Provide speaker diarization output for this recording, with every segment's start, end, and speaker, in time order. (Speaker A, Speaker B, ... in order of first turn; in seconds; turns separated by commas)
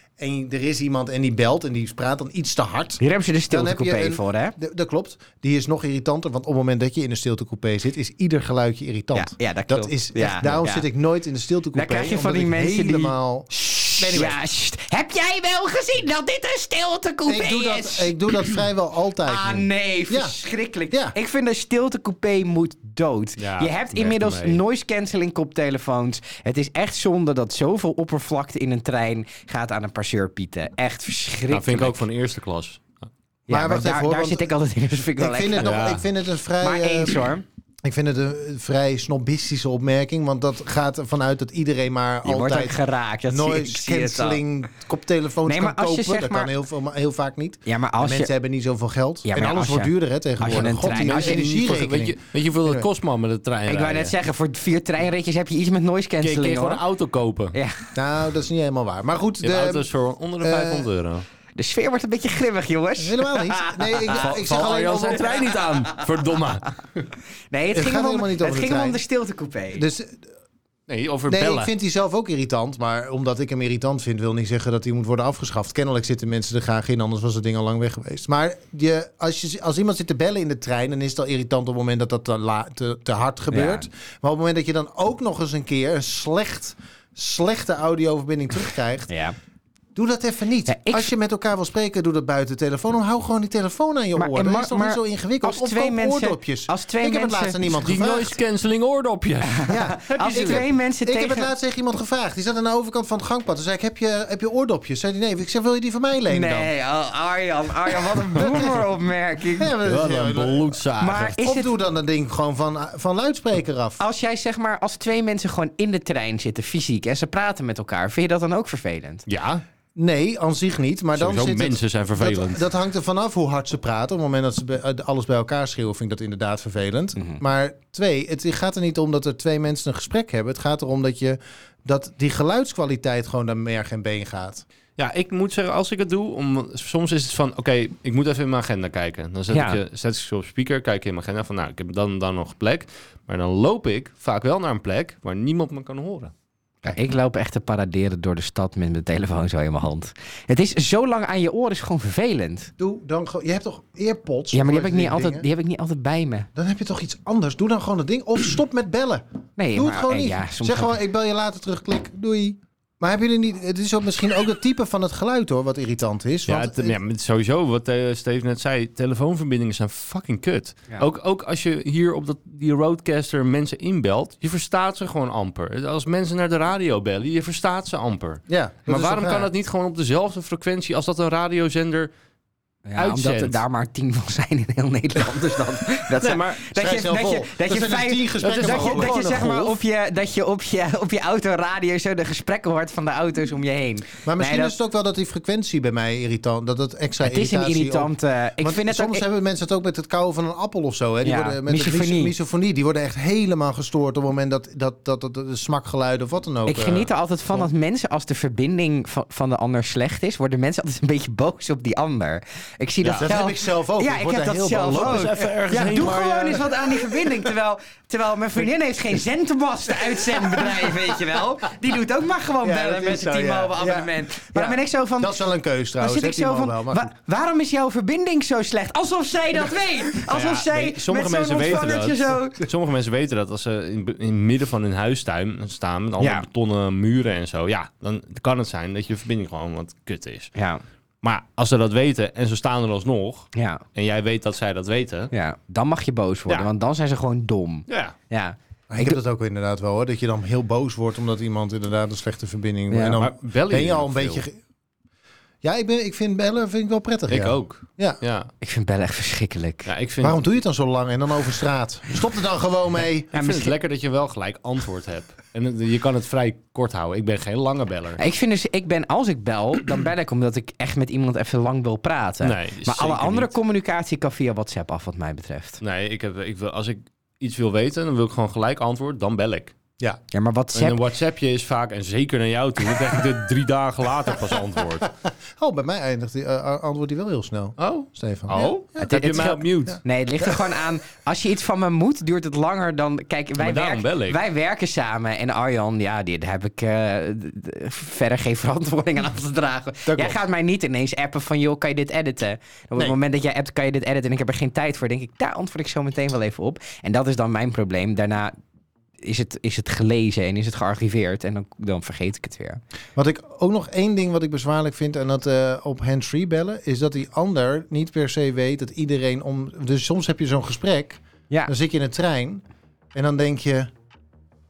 Speaker A: 0.2-14.4, Speaker B: 3.0-4.6, Speaker B: 9.2-10.9, Speaker B: 11.7-18.6, Speaker A: 17.3-20.4, Speaker B: 19.3-32.0, Speaker C: 23.4-24.6, Speaker C: 31.5-33.0, Speaker B: 33.5-35.7, Speaker A: 33.5-34.5, Speaker A: 35.2-37.3, Speaker C: 35.6-36.0, Speaker B: 36.6-37.4, Speaker A: 37.8-52.9, Speaker B: 42.2-44.4, Speaker B: 45.5-46.5, Speaker B: 47.7-48.3, Speaker B: 49.2-51.4, Speaker C: 50.4-54.1, Speaker B: 53.7-56.8, Speaker C: 56.2-57.6, Speaker B: 57.5-57.8, Speaker A: 58.0-59.9, Speaker C: 59.4-61.2, Speaker A: 60.4-60.9, Speaker B: 61.6-64.2, Speaker A: 63.0-65.5, Speaker C: 64.1-67.0, Speaker B: 67.5-69.8, Speaker A: 67.7-69.0, Speaker A: 69.8-70.2, Speaker C: 70.9-71.7, Speaker A: 71.3-89.1, Speaker B: 83.5-83.8, Speaker B: 89.1-89.3, Speaker A: 90.0-98.4, Speaker B: 90.7-91.1, Speaker B: 94.2-97.6, Speaker C: 97.7-100.7, Speaker B: 99.5-101.5, Speaker A: 99.7-106.7, Speaker B: 106.3-109.7, Speaker A: 108.3-108.8, Speaker A: 109.6-110.8, Speaker C: 109.8-111.4, Speaker B: 111.0-111.7, Speaker A: 111.4-114.0, Speaker B: 114.0-119.2, Speaker C: 119.3-119.6, Speaker A: 120.0-134.6, Speaker C: 121.2-122.7, Speaker C: 135.0-146.3, Speaker B: 139.5-139.8, Speaker B: 146.8-152.7, Speaker A: 152.8-155.5, Speaker B: 154.5-156.5, Speaker A: 156.6-167.0, Speaker B: 159.6-160.9, Speaker C: 166.5-182.1, Speaker A: 178.5-179.5, Speaker B: 182.9-194.7, Speaker C: 183.0-183.6, Speaker C: 186.1-186.7, Speaker A: 186.7-189.2, Speaker C: 188.4-189.8, Speaker A: 194.2-207.7, Speaker B: 197.2-199.2, Speaker B: 201.2-202.3, Speaker B: 206.7-225.4, Speaker C: 213.0-213.3, Speaker A: 213.2-216.0, Speaker C: 214.8-216.8, Speaker A: 220.1-221.2, Speaker A: 222.6-227.1, Speaker B: 226.0-232.6, Speaker C: 230.2-240.5, Speaker B: 236.2-236.5, Speaker B: 240.6-240.8, Speaker C: 241.2-245.3, Speaker B: 243.5-243.8, Speaker B: 245.3-249.2, Speaker C: 247.9-248.2, Speaker A: 248.9-254.6, Speaker B: 252.9-253.2, Speaker C: 253.1-254.4, Speaker A: 255.6-258.2, Speaker C: 257.3-258.5, Speaker B: 258.6-259.9, Speaker C: 259.9-260.4, Speaker A: 260.2-263.3, Speaker C: 263.3-268.2, Speaker B: 263.3-263.7, Speaker B: 268.2-275.8, Speaker C: 272.4-273.5, Speaker C: 275.8-279.8, Speaker B: 280.3-281.0, Speaker C: 280.7-285.1, Speaker A: 285.6-288.8, Speaker C: 287.8-290.0, Speaker B: 289.0-308.6, Speaker C: 293.6-294.4, Speaker A: 300.1-300.4, Speaker B: 309.2-312.8, Speaker A: 313.2-323.9